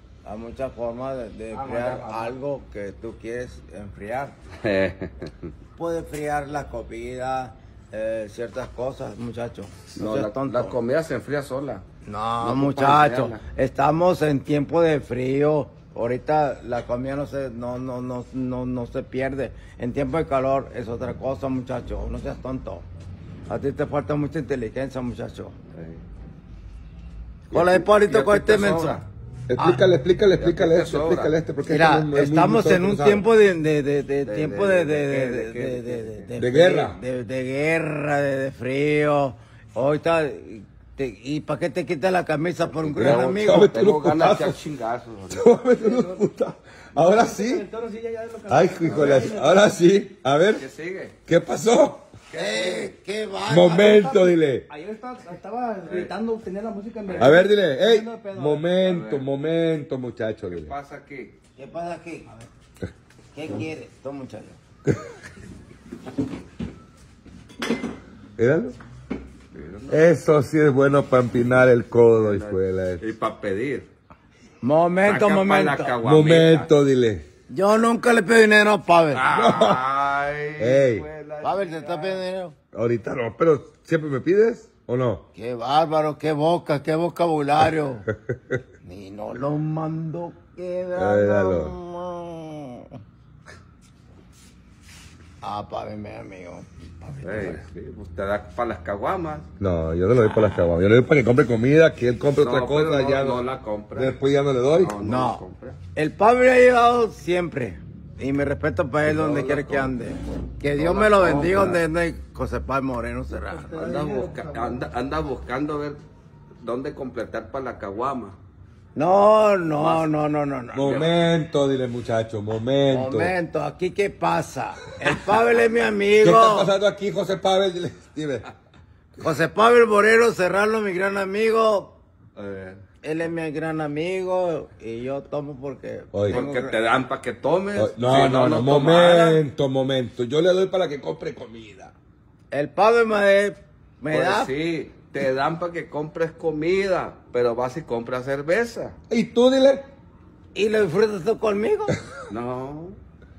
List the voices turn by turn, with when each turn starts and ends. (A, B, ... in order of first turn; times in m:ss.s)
0:00.2-0:04.4 A
0:01.5-0:02.3 B
0:04.6-0:05.5 B
0:05.8-0:10.8 A
0:10.0-0:11.8 B
0:12.0-0:22.8 A
0:12.4-0:13.4 B
0:23.5-0:25.5 A
0:25.7-0:26.0 B
0:27.5-0:29.0 A
0:27.5-0:29.0 B
0:29.5-0:33.2 C
0:29.6-0:29.8 A
0:30.4-0:31.3 B
0:31.7-0:43.7 A
0:34.2-0:36.3 B
0:36.4-0:37.0 C
0:42.7-0:45.5 B
0:43.0-0:44.6 C
0:45.3-0:47.6 C
0:45.8-0:46.2 D
0:47.0-0:49.7 D
0:48.5-0:50.6 C
0:50.5-0:51.2 B
0:51.3-0:52.1 C
0:52.3-0:52.9 B
0:52.3-0:54.2 A
0:53.5-0:54.7 C
0:53.8-0:58.7 D
0:55.8-0:56.1 B
0:57.1-0:57.4 B
0:57.2-1:00.7 C
0:58.8-0:59.2 B
1:00.5-1:01.3 B
1:01.6-1:02.4 A
1:03.3-1:04.6 A
1:08.4-1:08.7 C
1:09.5-1:10.0 B
1:09.9-1:13.0 C
1:12.1-1:13.9 B
1:14.6-1:16.0 A
1:15.0-1:16.7 B
1:16.0-1:17.2 C
1:17.5-1:19.2 A
1:19.1-1:22.2 B
1:19.3-1:19.8 C
1:20.6-1:21.0 C
1:21.4-1:22.6 A
1:22.7-1:25.2 C
1:25.3-1:28.1 A
1:28.8-1:33.0 A
1:30.9-1:31.7 C
1:35.4-1:37.6 A
1:37.2-1:39.5 B
1:39.6-1:43.4 C
1:42.4-1:44.2 B
1:43.9-1:45.0 C
1:44.8-1:45.8 B
1:45.0-1:45.4 A
1:45.9-1:53.9 A
1:49.0-1:49.9 B
1:50.7-1:51.8 B
1:53.4-1:54.8 D
1:53.7-1:56.0 B
1:56.6-1:58.4 B
1:58.9-2:00.8 A
1:59.7-2:00.1 B
2:00.7-2:03.3 C
2:00.7-2:01.1 B
2:02.9-2:06.7 A
2:06.2-2:08.5 C
2:09.2-2:12.0 A
2:12.4-2:12.8 B
2:13.0-2:16.8 A
2:16.1-2:16.4 C
2:16.3-2:19.4 B
2:17.8-2:21.9 C
2:22.5-2:24.5 A
2:24.1-2:29.0 B
2:29.1-2:29.8 C
2:30.5-2:32.0 A
2:32.3-2:33.0 B